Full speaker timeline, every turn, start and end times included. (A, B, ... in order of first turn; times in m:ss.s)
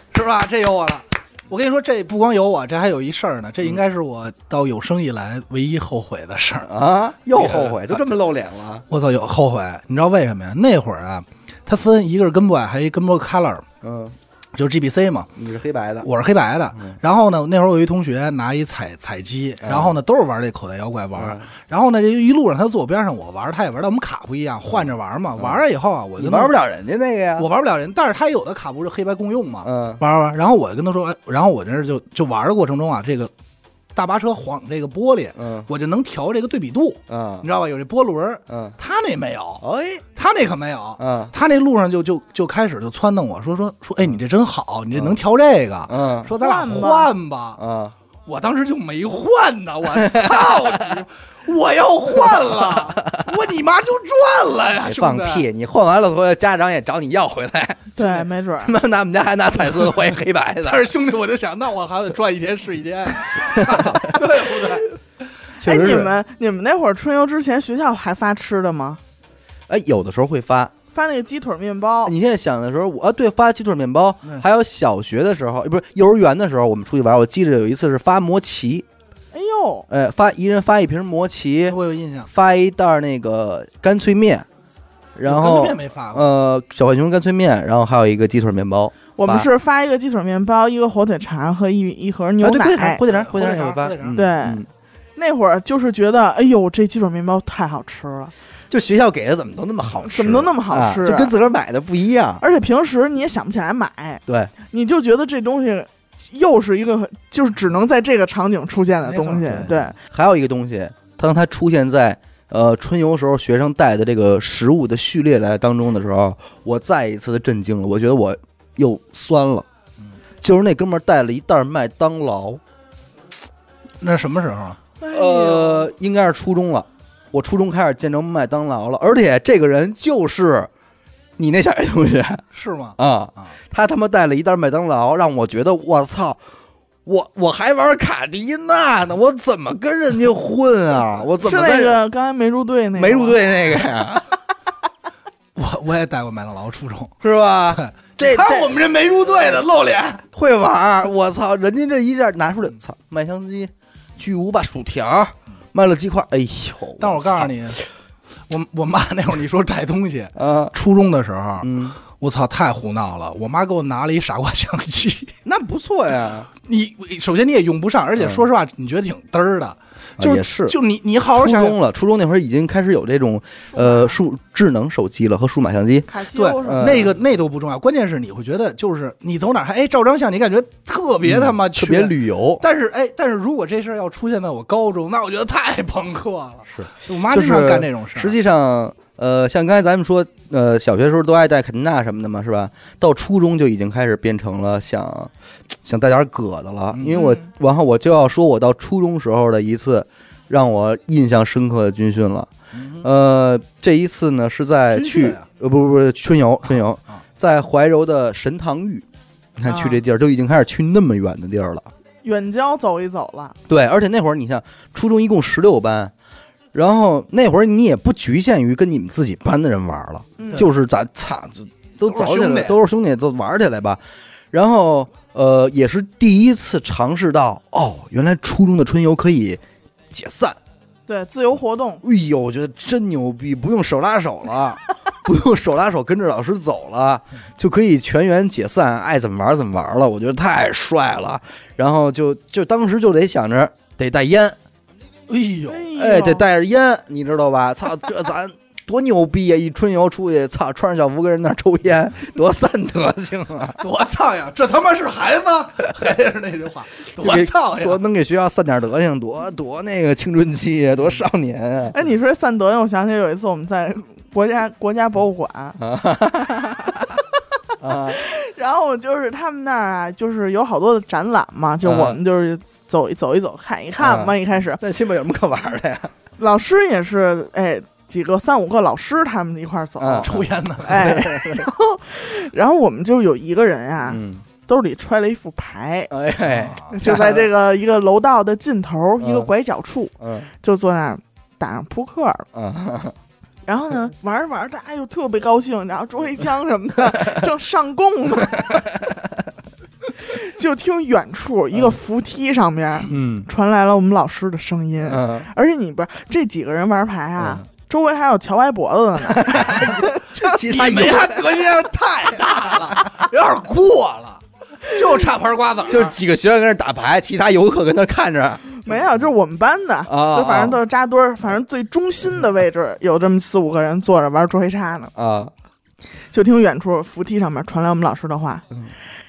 0:00.1-0:06.7 A
0:06.6-0:08.8 B
0:07.3-0:08.1 A
0:08.9-0:13.6 A
0:13.8-0:14.2 B
0:14.5-0:15.3 A
0:15.4-0:16.1 B
0:16.0-0:26.6 A
0:19.6-0:19.9 B
0:21.2-0:21.4 B
0:26.2-0:27.5 B
0:27.4-0:33.3 A
0:29.6-0:30.0 B
0:33.9-0:39.6 A
0:35.4-0:35.7 B
0:37.1-0:37.5 B
0:38.5-0:38.8 B
0:39.6-0:40.0 B
0:40.2-0:47.6 A
0:41.0-0:41.3 B
0:44.9-0:45.2 B
0:45.9-0:46.3 B
0:46.3-0:47.1 C
0:47.6-0:47.9 B
0:48.3-0:55.4 A
0:50.0-0:51.0 B
0:52.2-0:53.2 B
0:54.8-1:00.9 B
0:58.0-0:58.7 C
1:00.6-1:04.9 A
1:03.6-1:04.2 B
1:05.6-1:06.1 B
1:05.6-1:09.0 C
1:09.7-1:10.7 B
1:10.9-1:12.1 C
1:12.0-1:18.8 B
1:19.3-1:19.9 C
1:19.9-1:24.4 B
1:21.7-1:22.3 A
1:25.2-1:29.5 B
1:25.2-1:26.3 A
1:29.2-1:33.0 C
1:32.4-1:34.7 B
1:33.1-1:34.2 A
1:34.1-1:34.6 C
1:35.2-1:38.3 C
1:38.7-1:42.4 B
1:40.0-1:41.3 C
1:42.4-1:50.0 C
1:44.3-1:44.5 B
1:49.0-1:49.7 A
1:49.5-1:59.6 B
2:00.4-2:02.6 B
2:04.0-2:04.8 A
2:05.0-2:05.9 C
2:05.1-2:10.7 B
2:11.4-2:12.4 B
2:12.5-2:13.5 A
2:13.0-2:16.4 B
2:17.0-2:22.0 B
2:21.4-2:23.4 C
2:22.9-2:24.3 B
2:25.6-2:27.2 A
2:27.2-2:28.8 B
2:27.7-2:30.2 A
2:30.3-2:37.5 B
2:37.0-2:37.8 A
2:38.5-2:45.3 A
2:40.4-2:40.7 B
2:41.6-2:42.0 B
2:45.4-2:46.5 B
2:46.6-2:51.8 A
2:50.2-2:56.1 B
2:56.1-2:57.1 C
2:56.3-3:08.3 A
2:56.6-2:57.1 B
3:01.2-3:02.6 B
3:06.7-3:22.5 B
3:16.9-3:17.2 A
3:17.1-3:17.5 C
3:22.7-3:23.0 A
3:23.0-3:29.0 B
3:24.9-3:25.5 A
3:26.8-3:27.2 A
3:29.6-3:31.9 B
3:32.2-3:33.6 C
3:33.7-3:36.1 B
3:36.7-3:44.0 B
3:40.4-3:40.7 C
3:42.1-3:42.8 A
3:44.5-3:50.6 B
3:51.1-3:52.0 C
3:52.0-4:04.6 B
4:05.3-4:05.9 A
4:05.6-4:06.4 C
4:05.9-4:13.8 B
4:13.8-4:18.0 A
4:17.2-4:22.0 B
4:21.9-4:25.8 C
4:25.8-4:27.2 B
4:27.8-4:28.2 B
4:28.1-4:34.8 C
4:31.8-4:32.2 B
4:34.0-4:36.1 B
4:36.4-4:40.3 C
4:40.0-4:41.7 B
4:40.2-4:41.2 A
4:40.8-4:46.1 C
4:44.1-4:44.4 B
4:46.1-4:47.4 B
4:46.4-4:46.9 A
4:46.9-4:52.5 C
4:49.2-4:49.5 B
4:50.2-4:50.5 B
4:52.5-4:53.1 B
4:53.6-4:58.8 C
4:57.1-4:57.4 B
4:58.5-4:59.3 B
5:00.2-5:10.6 C
5:03.1-5:03.5 B
5:05.1-5:05.5 B
5:09.2-5:11.6 B
5:10.7-5:16.2 A
5:15.9-5:18.8 B
5:18.8-5:25.1 C
5:20.0-5:20.8 B
5:25.1-5:25.5 B
5:26.3-5:28.6 C